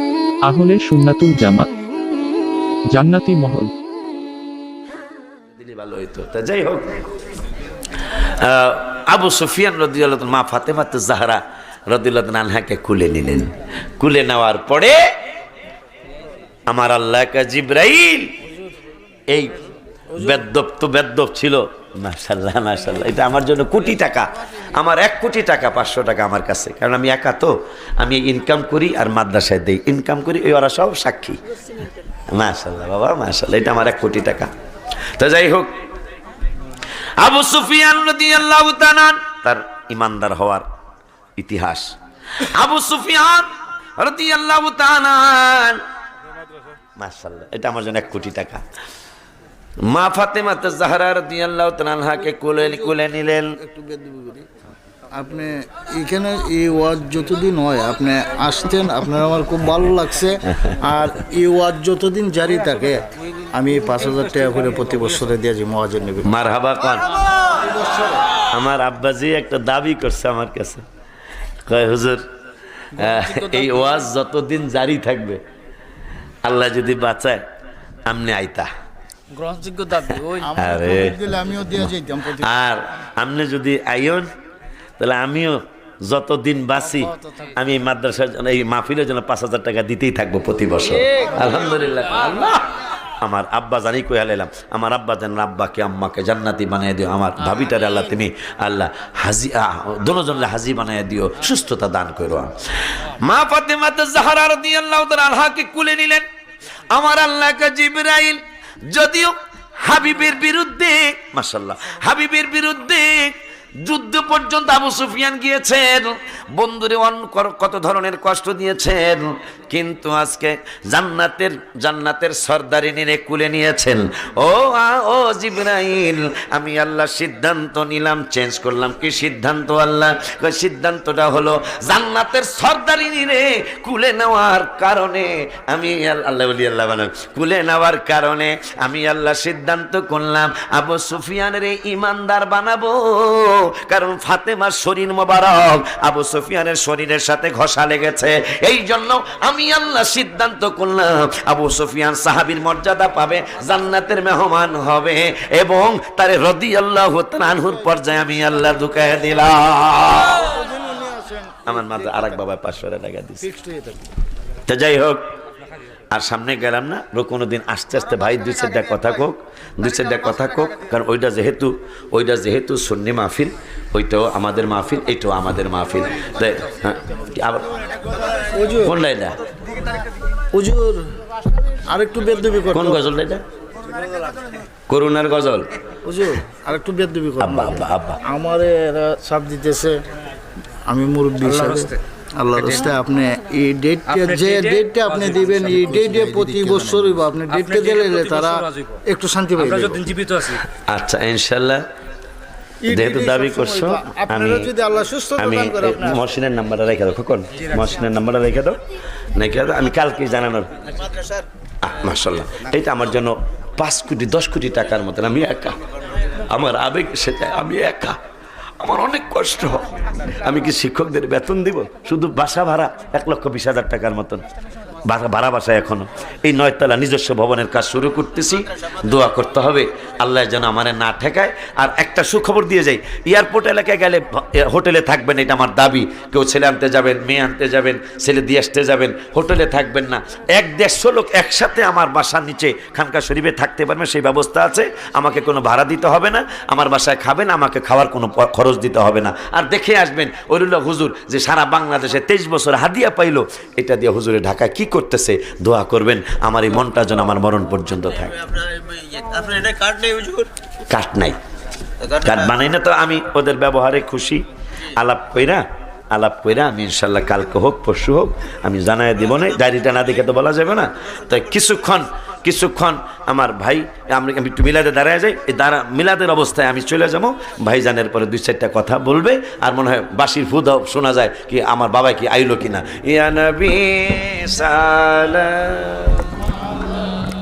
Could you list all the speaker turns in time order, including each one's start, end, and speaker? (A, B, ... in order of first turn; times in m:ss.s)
0:00.5-0:01.7 A
0:02.9-0:03.7 A
0:05.6-0:07.2 B
0:08.1-0:15.0 B
0:16.7-0:18.4 B
0:19.3-0:19.6 B
0:20.1-0:20.4 C
0:20.2-0:31.4 B
0:32.3-0:34.5 B
0:35.2-0:35.8 B
0:37.2-0:40.6 B
0:41.4-0:45.8 B
0:47.0-0:48.6 B
0:49.8-0:53.6 B
0:52.6-0:53.0 C
0:53.6-0:54.5 C
0:55.1-1:06.3 C
1:06.2-1:07.1 B
1:07.5-1:08.2 C
1:08.5-1:10.8 B
1:11.6-1:12.2 B
1:13.0-1:15.4 B
1:13.0-1:13.7 C
1:16.4-1:17.4 B
1:18.1-1:18.7 B
1:19.4-1:22.5 C
1:20.6-1:24.3 B
1:25.0-1:46.2 B
1:46.9-2:40.5 B
2:40.4-2:42.4 C
2:41.7-2:43.4 B
2:43.4-2:44.1 C
2:44.7-2:45.3 B
2:46.1-2:57.7 B
2:58.5-2:59.0 C
2:58.8-2:59.4 B
3:00.5-3:01.1 C
3:01.9-3:03.0 C
3:02.7-3:03.4 B
3:04.9-3:05.7 B
3:06.0-3:10.0 C
3:07.4-3:08.2 B
3:10.9-3:20.1 C
3:11.6-3:11.9 D
3:12.6-3:12.9 D
3:14.1-3:19.0 D
3:19.6-3:20.6 D
3:20.9-3:21.8 B
3:22.8-3:26.2 C
3:22.9-3:24.7 B
3:25.4-3:28.8 B
3:29.4-3:30.7 B
3:31.8-3:35.8 B
3:36.5-3:38.2 B
3:38.8-3:44.4 B
3:45.1-4:18.6 B
4:18.7-4:20.4 D
4:20.9-4:21.4 B
4:22.1-4:46.2 B